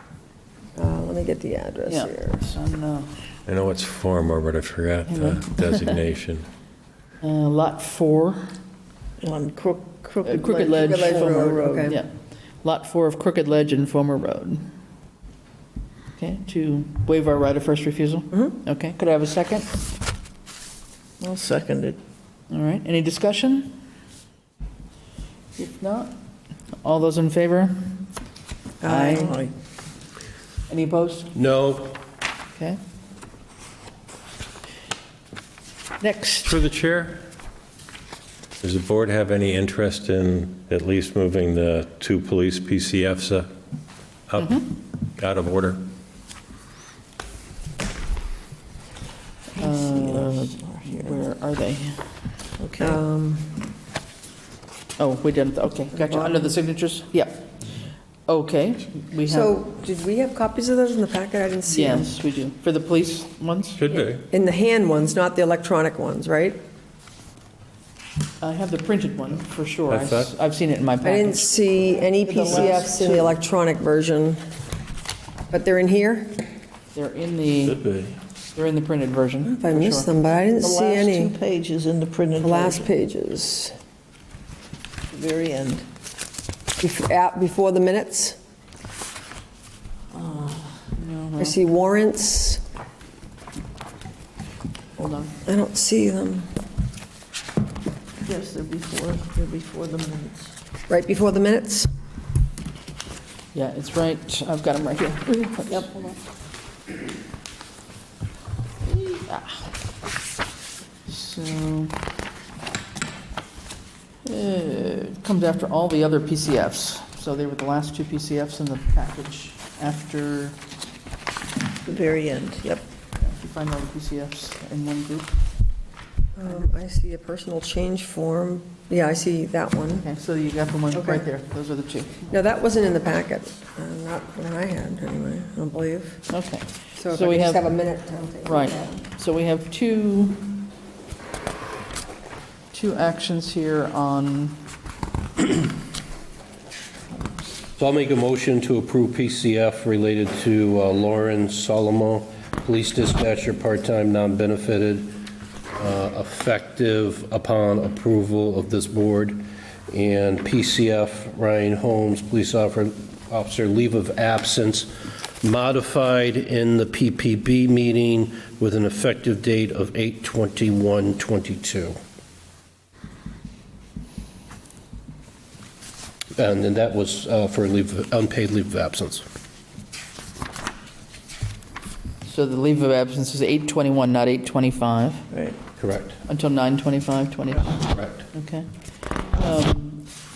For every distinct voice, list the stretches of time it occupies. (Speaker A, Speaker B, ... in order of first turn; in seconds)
Speaker A: 0.8-2.6, 10.5-12.0, 28.8-29.3, 52.8-53.6, 55.9-56.5, 59.2-62.1, 63.9-66.6, 71.0-74.4, 75.5-76.4, 79.4-81.3, 82.4-83.7, 86.8-88.4, 91.4-92.6, 95.4-96.5, 100.9-101.9, 126.3-130.1, 130.9-131.3, 132.3-136.2, 136.9-139.0
Speaker B: 1.9-3.1, 5.1-6.0, 7.2-8.5, 10.2-14.7, 16.2-19.8, 22.5-23.8, 25.6-26.1, 26.8-27.9, 28.8-29.3, 30.7-31.3, 36.0-36.5, 44.4-44.7, 49.6-52.1, 55.0-57.6, 58.2-59.6, 61.7-63.8, 68.4-71.6, 72.5-72.7, 76.9-77.8, 78.5-80.1, 90.9-91.6, 95.0-95.3, 103.5-105.9, 108.8-109.7, 111.0-112.0, 114.2-120.5, 123.2-125.3, 130.0-132.2, 136.3-137.7, 138.4-140.5, 142.7-144.6, 182.2-185.2, 186.3-188.7, 189.3-190.1
Speaker C: 3.5-6.5, 36.4-37.2, 38.6-43.5, 44.3-45.8, 63.8-64.2, 69.9-70.3, 77.7-78.1
Speaker D: 9.2-11.6, 21.2-22.0, 29.2-29.5, 49.6-51.2, 72.3-73.3, 80.6-82.8, 85.1-85.8, 90.1-90.8, 98.2-100.5, 121.8-122.8, 185.3-185.6
Speaker E: 31.3-32.0, 147.8-164.9, 165.4-171.9, 176.3-179.2, 185.8-186.2, 187.9-188.2